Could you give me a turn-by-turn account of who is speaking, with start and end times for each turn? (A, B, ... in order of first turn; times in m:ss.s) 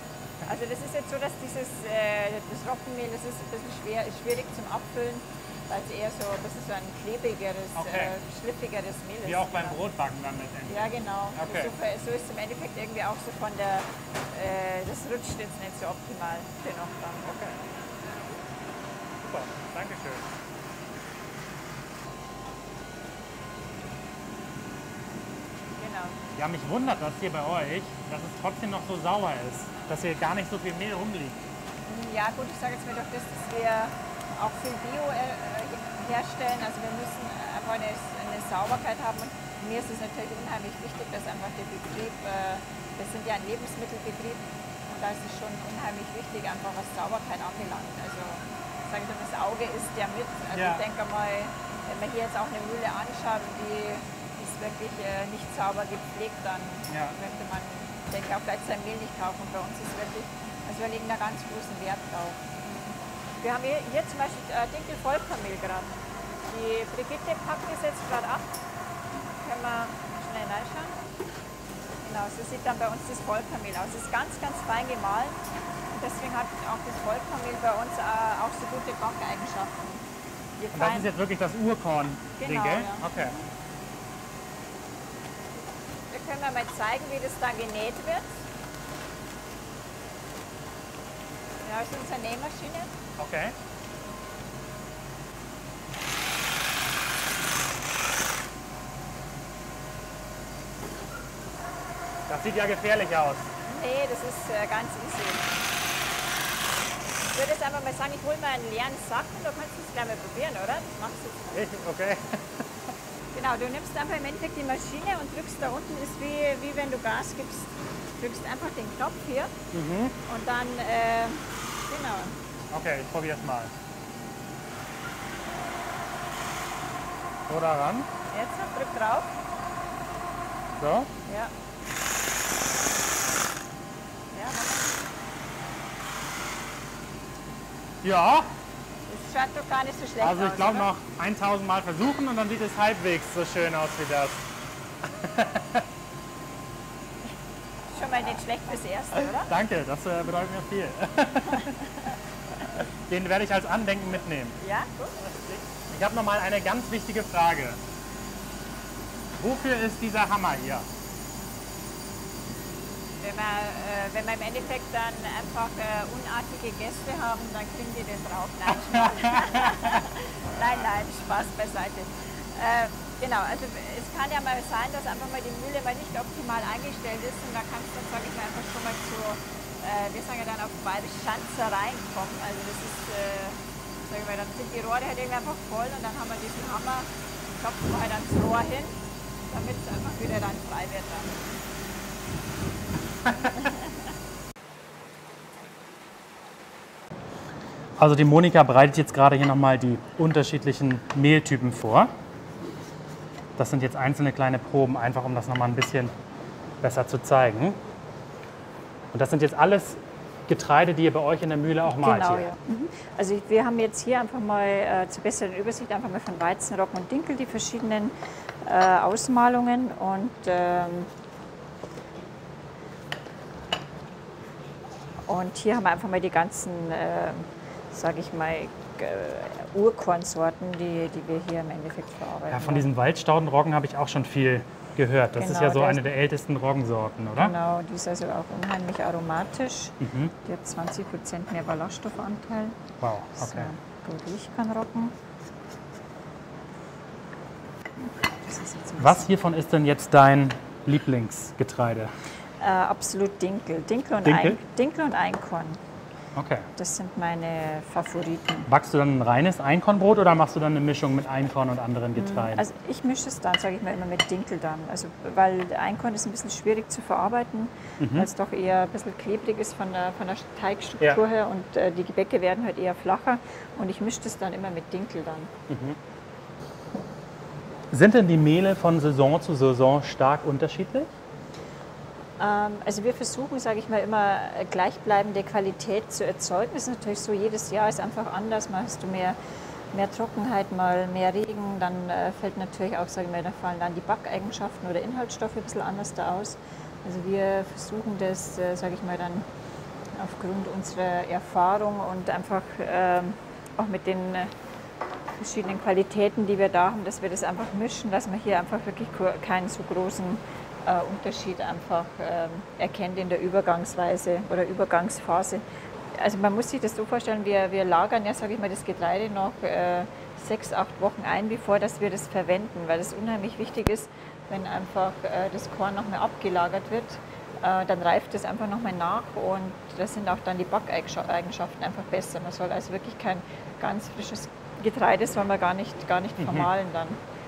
0:00.5-0:09.8 A
0:07.8-0:08.2 B
0:09.2-0:11.7 B
0:10.7-0:17.4 A
0:17.2-0:17.6 B
0:19.2-0:20.3 B
0:25.8-0:26.2 A
0:26.4-0:31.4 B
0:31.9-1:05.9 A
0:50.5-0:50.8 B
0:56.9-0:57.2 B
1:06.5-1:08.6 A
1:09.4-1:11.0 A
1:12.0-1:15.4 A
1:15.9-1:20.0 A
1:20.6-1:21.1 A
1:20.7-1:23.4 B
1:22.4-1:23.4 A
1:26.1-1:28.4 A
1:31.6-1:32.9 A
1:33.2-1:33.6 B
1:42.3-1:43.5 B
1:43.7-1:45.4 A
1:47.3-1:51.6 A
1:51.5-1:52.6 B
1:53.3-1:59.6 A
1:59.7-2:00.2 B
2:00.3-2:02.3 A
2:02.7-2:03.7 B
2:07.5-2:08.1 B
2:08.3-2:09.3 A
2:10.8-2:11.1 B
2:11.3-2:11.5 A
2:14.3-2:14.9 A
2:18.0-2:18.5 B
2:19.1-2:20.9 A
2:20.2-2:24.5 B
2:25.1-2:25.9 B
2:27.9-2:29.5 A
2:29.5-2:31.8 B
2:32.8-2:34.6 B
2:34.6-2:35.2 A
2:35.2-2:37.8 B
2:39.4-2:40.9 B
2:43.2-3:09.0 A
2:48.9-2:50.0 B
3:09.5-3:11.3 A
3:18.0-3:22.1 B
3:23.6-3:26.1 B
3:26.8-3:27.8 B
3:29.1-3:32.5 B
3:31.9-3:41.1 A
3:45.3-3:52.9 A
3:52.5-3:57.6 B
3:55.4-3:56.0 A
3:57.4-4:02.8 A
4:00.0-4:00.3 B
4:03.0-4:03.7 B
4:03.4-4:05.2 A
4:08.0-4:09.3 A
4:09.0-4:12.1 B
4:12.6-4:15.8 A
4:14.2-4:14.6 B
4:16.4-4:16.7 B
4:16.8-4:18.7 A
4:18.7-4:22.6 B
4:22.2-4:35.5 A
4:28.0-4:28.3 B
4:35.7-4:36.0 B
4:37.9-4:41.1 B
4:42.4-4:49.4 A
4:49.9-4:59.5 A
5:00.2-5:04.5 A
5:05.4-5:15.6 A
5:16.1-5:37.2 A
5:36.4-5:36.7 B